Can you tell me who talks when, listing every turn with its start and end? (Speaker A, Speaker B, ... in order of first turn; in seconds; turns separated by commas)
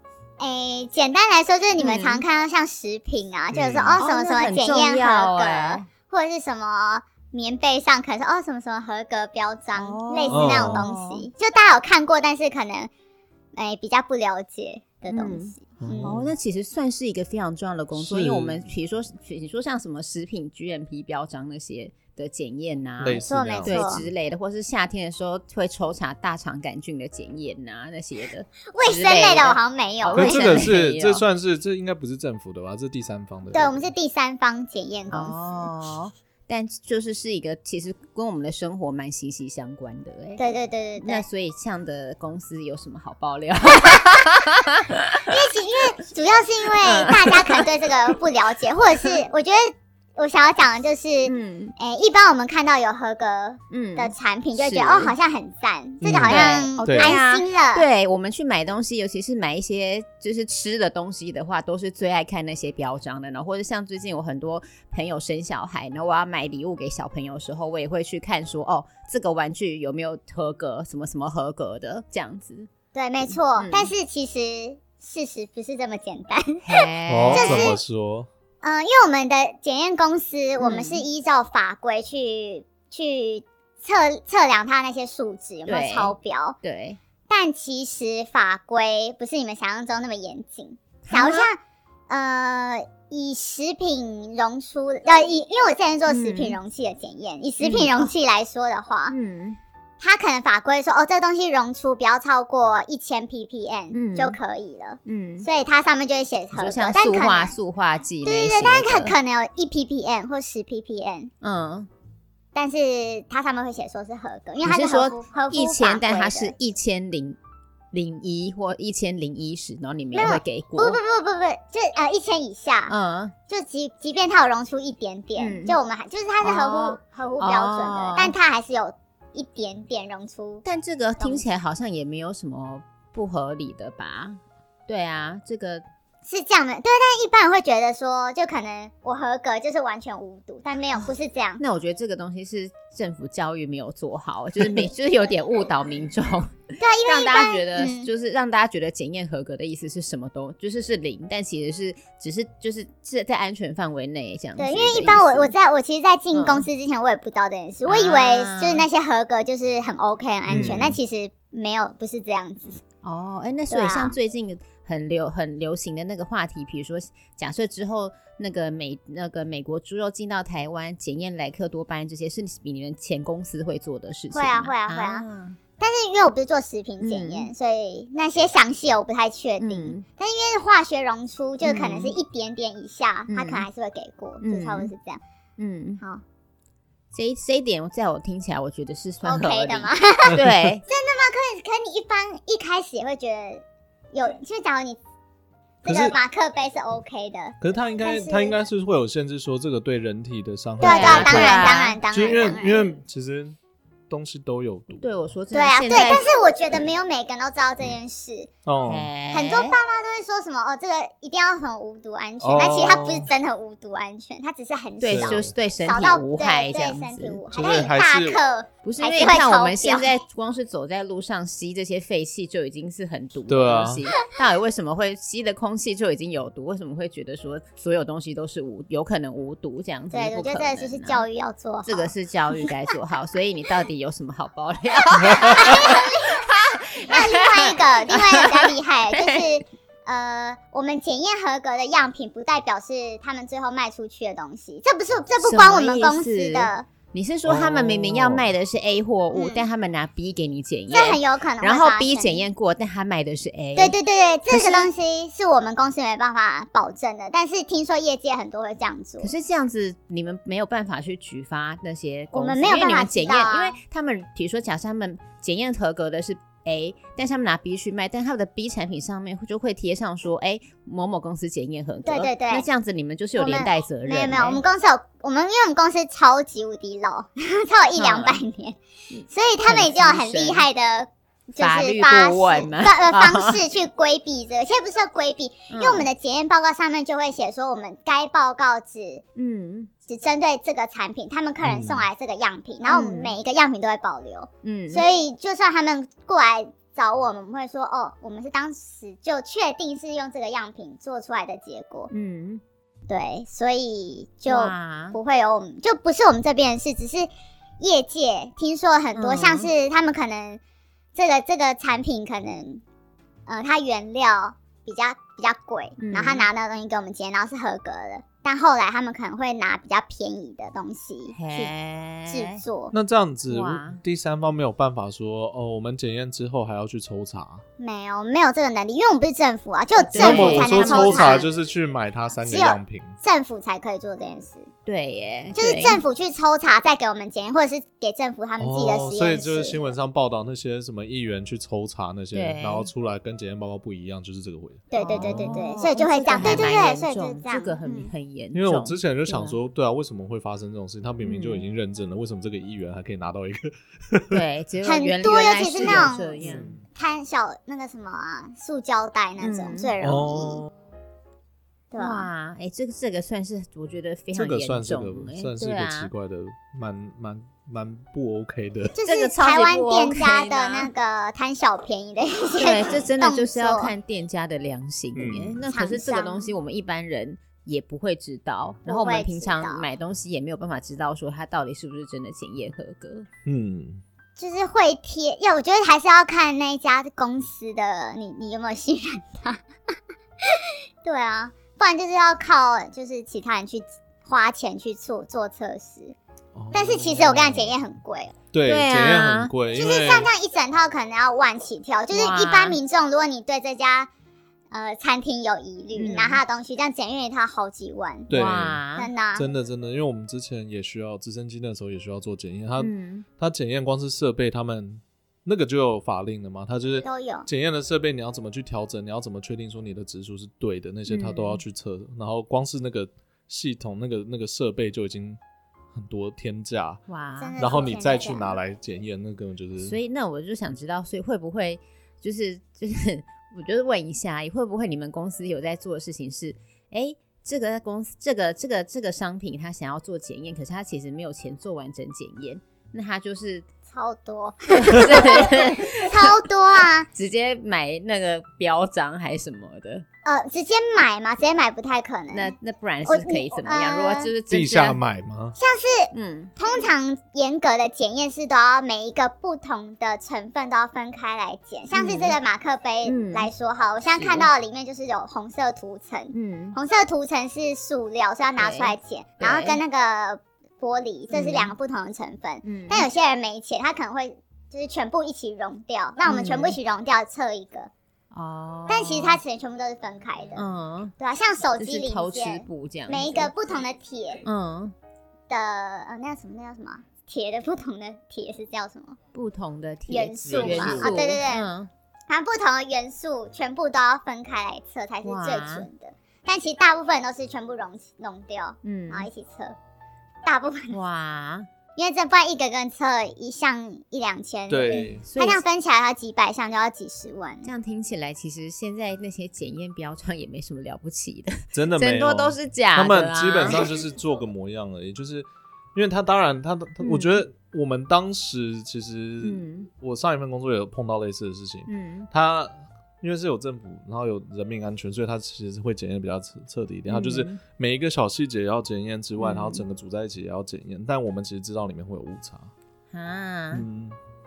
Speaker A: 0.4-12.9, Speaker B: 1.8-2.2, Speaker C: 3.5-4.0, Speaker B: 4.0-5.9, Speaker B: 9.8-11.3, Speaker C: 10.3-10.9, Speaker A: 13.5-16.1, Speaker B: 15.1-31.2, Speaker C: 15.8-16.3, Speaker C: 17.9-18.7, Speaker C: 23.0-24.1, Speaker A: 23.1-24.0, Speaker A: 28.7-30.6, Speaker C: 30.1-33.9, Speaker A: 33.5-35.4, Speaker B: 35.1-40.5, Speaker A: 40.4-41.2, Speaker B: 41.0-45.5, Speaker A: 45.2-57.9, Speaker B: 46.8-48.2, Speaker B: 51.2-51.7, Speaker B: 53.7-55.1, Speaker C: 56.0-57.2, Speaker B: 56.3-72.7, Speaker A: 72.9-76.7, Speaker B: 73.3-73.9, Speaker B: 76.7-77.8, Speaker C: 77.1-78.3, Speaker A: 77.3-77.8, Speaker A: 78.6-86.6, Speaker B: 80.6-81.0, Speaker B: 85.7-87.0, Speaker A: 87.3-99.2, Speaker B: 91.0-91.5, Speaker B: 96.1-96.6, Speaker B: 97.6-98.1, Speaker B: 99.1-99.6, Speaker A: 100.0-107.5, Speaker B: 103.9-104.4, Speaker B: 105.0-105.5, Speaker B: 106.5-109.2, Speaker A: 108.2-111.3, Speaker B: 111.4-111.9, Speaker A: 112.5-116.5, Speaker B: 114.6-117.4, Speaker B: 117.9-121.0, Speaker A: 120.1-122.9, Speaker B: 122.9-123.3, Speaker A: 123.5-130.7, Speaker B: 125.4-125.8, Speaker B: 126.4-128.3, Speaker B: 130.7-135.8, Speaker A: 136.3-141.6, Speaker B: 141.6-155.5, Speaker A: 146.8-148.1, Speaker A: 154.6-162.8, Speaker B: 156.3-156.7, Speaker B: 157.9-158.8, Speaker C: 160.5-161.0, Speaker B: 163.0-175.6, Speaker A: 163.7-164.2, Speaker A: 174.3-175.3, Speaker A: 175.8-185.2, Speaker B: 177.0-177.5, Speaker B: 179.6-180.0, Speaker B: 181.6-182.2, Speaker B: 183.3-183.7, Speaker B: 184.4-184.9, Speaker B: 185.6-186.0, Speaker B: 187.1-190.8, Speaker A: 189.2-195.0, Speaker A: 195.8-198.6, Speaker C: 195.9-196.2, Speaker C: 197.6-203.6, Speaker A: 200.8-202.9, Speaker B: 200.8-202.0, Speaker C: 204.1-205.1, Speaker B: 205.0-206.3, Speaker A: 205.5-208.5, Speaker C: 208.7-209.1, Speaker B: 208.9-209.8, Speaker A: 209.3-220.2, Speaker C: 212.4-213.3, Speaker B: 215.0-217.4, Speaker C: 215.1-215.5, Speaker C: 217.5-218.4, Speaker B: 218.8-231.2, Speaker C: 223.5-224.1, Speaker A: 230.1-232.9, Speaker B: 231.8-239.4, Speaker A: 235.3-236.5, Speaker A: 237.0-246.9, Speaker B: 245.4-254.0, Speaker C: 247.5-248.4, Speaker A: 249.3-249.7, Speaker A: 250.9-252.5, Speaker A: 253.8-259.3, Speaker B: 254.5-254.9, Speaker B: 259.2-274.6, Speaker A: 262.3-263.8, Speaker A: 272.1-272.7, Speaker A: 273.4-278.8, Speaker B: 278.0-278.4, Speaker B: 279.1-280.7, Speaker A: 279.3-289.2, Speaker B: 281.6-283.6, Speaker B: 285.7-286.1, Speaker B: 289.4-289.9, Speaker A: 290.1-302.1, Speaker C: 291.6-292.1, Speaker B: 292.9-293.4, Speaker B: 294.6-295.1, Speaker B: 302.1-302.6, Speaker A: 303.1-307.3, Speaker B: 304.5-305.2, Speaker A: 307.8-310.6, Speaker B: 309.2-309.7, Speaker A: 311.1-312.8, Speaker A: 313.5-321.7, Speaker B: 316.0-316.5, Speaker B: 321.3-322.6, Speaker A: 322.3-322.9, Speaker C: 322.9-327.6, Speaker B: 323.5-324.0, Speaker A: 327.8-331.5, Speaker B: 330.1-331.4, Speaker C: 330.1-333.2, Speaker A: 332.5-334.7, Speaker B: 334.9-336.0, Speaker A: 335.6-339.8, Speaker C: 338.6-345.6, Speaker B: 342.3-342.9, Speaker A: 344.9-348.1, Speaker B: 345.0-349.6, Speaker C: 346.4-346.7, Speaker C: 348.5-354.4, Speaker B: 351.2-351.7, Speaker B: 354.3-356.7, Speaker A: 354.9-360.7, Speaker C: 355.8-356.9, Speaker B: 359.4-359.9, Speaker C: 360.0-360.7, Speaker A: 361.9-362.3, Speaker B: 362.0-366.1, Speaker C: 364.4-368.9, Speaker A: 369.0-373.9, Speaker B: 369.1-370.9, Speaker B: 372.6-383.3, Speaker C: 375.1-375.6, Speaker A: 375.7-376.5, Speaker A: 378.9-379.9, Speaker C: 383.4-384.0, Speaker A: 384.4-389.6, Speaker A: 390.4-396.2, Speaker C: 396.6-397.7, Speaker A: 396.7-398.4, Speaker C: 398.5-400.3, Speaker B: 398.7-399.5, Speaker A: 399.7-404.1, Speaker B: 402.1-402.8, Speaker A: 404.7-408.3, Speaker B: 405.9-406.4, Speaker C: 408.3-408.8, Speaker B: 408.3-409.1, Speaker A: 409.0-409.5, Speaker C: 409.3-425.4, Speaker B: 412.8-413.2, Speaker A: 417.0-417.5, Speaker B: 421.1-421.6, Speaker C: 425.9-427.0, Speaker B: 427.1-427.6, Speaker A: 427.4-428.6, Speaker C: 427.6-430.0, Speaker B: 429.8-443.7, Speaker A: 443.9-447.1, Speaker B: 444.7-446.4, Speaker B: 447.1-450.1, Speaker A: 450.2-452.5, Speaker B: 452.3-455.0, Speaker A: 453.1-454.3, Speaker C: 454.5-455.6, Speaker A: 455.6-477.9, Speaker B: 456.1-456.5, Speaker B: 461.9-462.4, Speaker B: 463.0-463.5, Speaker B: 464.2-464.5, Speaker B: 466.3-466.8, Speaker B: 468.6-469.8, Speaker B: 471.3-471.7, Speaker B: 472.6-473.1, Speaker B: 476.3-476.8, Speaker B: 478.3-479.4, Speaker A: 478.9-480.6, Speaker B: 480.6-481.1, Speaker A: 481.2-484.4, Speaker B: 481.8-483.5, Speaker B: 484.4-484.9, Speaker A: 485.5-489.2, Speaker B: 489.3-491.9, Speaker A: 490.1-491.7, Speaker C: 490.5-491.3, Speaker A: 492.3-499.7, Speaker B: 495.2-495.9, Speaker B: 498.8-499.3, Speaker A: 500.4-501.0, Speaker B: 500.9-501.7, Speaker A: 502.0-507.7, Speaker C: 504.7-505.2, Speaker B: 504.9-505.6, Speaker B: 507.6-513.9, Speaker C: 511.7-532.7, Speaker B: 517.0-517.4, Speaker B: 519.4-519.9, Speaker B: 521.9-522.3, Speaker B: 527.1-527.6, Speaker B: 529.4-529.8, Speaker B: 533.1-533.9, Speaker C: 533.7-534.2